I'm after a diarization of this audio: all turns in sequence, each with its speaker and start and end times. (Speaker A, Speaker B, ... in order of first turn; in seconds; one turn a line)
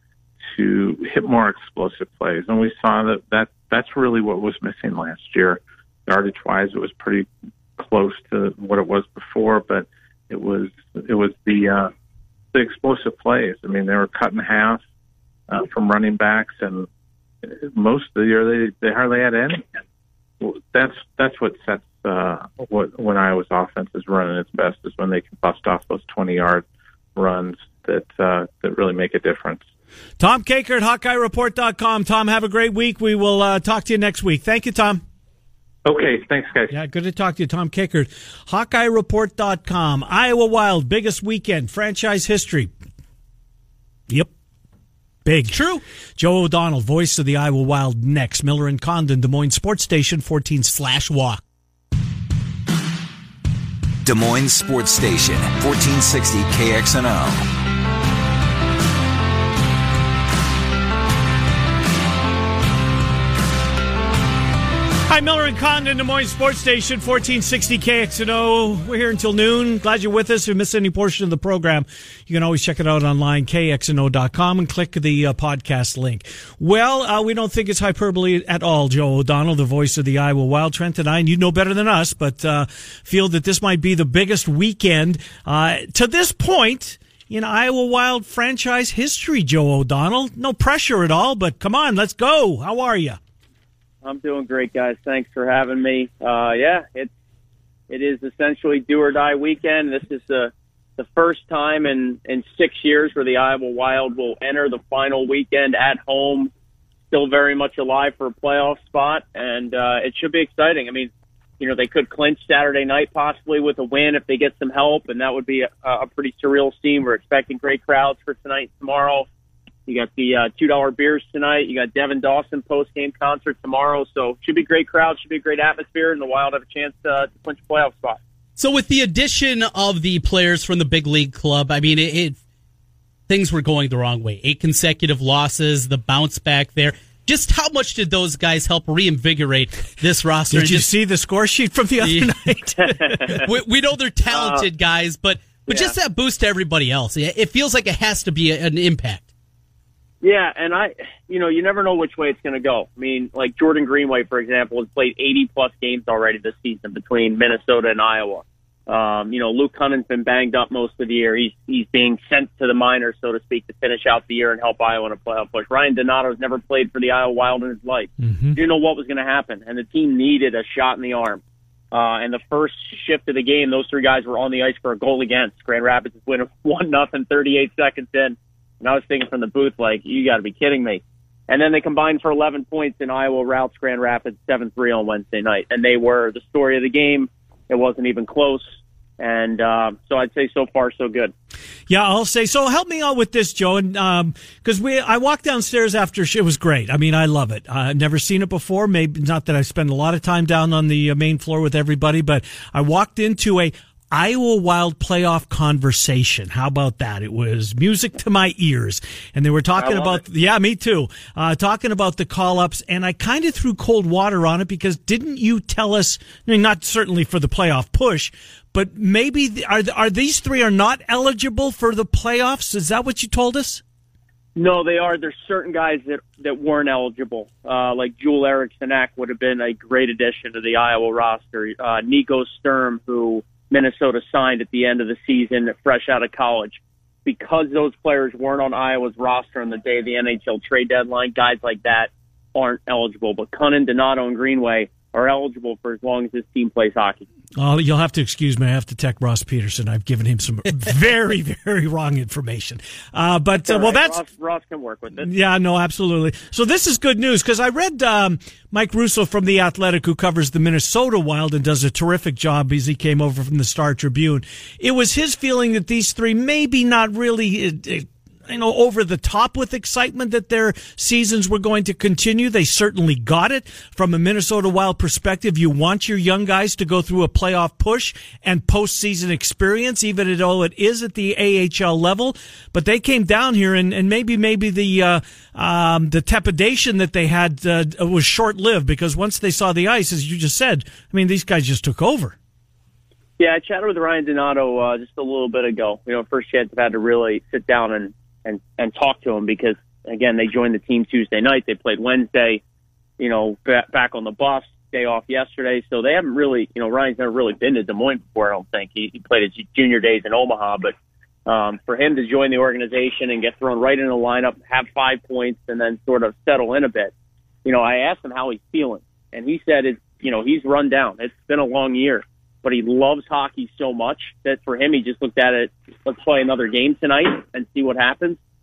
Speaker A: 0.5-11.9
Speaker A: 12.5-14.8
Speaker A: 15.5-16.9
Speaker A: 17.4-19.8
Speaker A: 20.4-26.6
Speaker A: 27.2-29.6
Speaker B: 30.2-35.0
Speaker A: 35.9-36.7
Speaker B: 36.7-42.7
Speaker B: 45.2-45.6
Speaker C: 45.5-45.8
Speaker B: 46.2-50.8
Speaker C: 50.7-51.4
Speaker D: 54.0-57.5
Speaker B: 65.1-93.2
Speaker E: 94.0-97.1
Speaker E: 97.9-106.5
Speaker E: 107.1-111.1
Speaker E: 111.6-119.3
Speaker E: 119.9-128.2
Speaker C: 128.6-132.4
Speaker C: 133.3-140.9
Speaker B: 140.5-143.4
Speaker C: 142.0-142.3
Speaker E: 143.0-143.4
Speaker C: 143.3-149.2
Speaker E: 144.3-144.7
Speaker E: 145.7-145.9
Speaker E: 150.2-188.7
Speaker B: 168.2-168.6
Speaker E: 189.2-191.3
Speaker B: 191.9-223.8
Speaker E: 209.8-210.2
Speaker E: 224.6-247.2
Speaker B: 247.6-254.2
Speaker E: 253.7-255.3
Speaker B: 255.2-292.4
Speaker E: 293.4-302.6
Speaker E: 303.2-310.9
Speaker E: 311.5-317.1
Speaker E: 317.6-328.4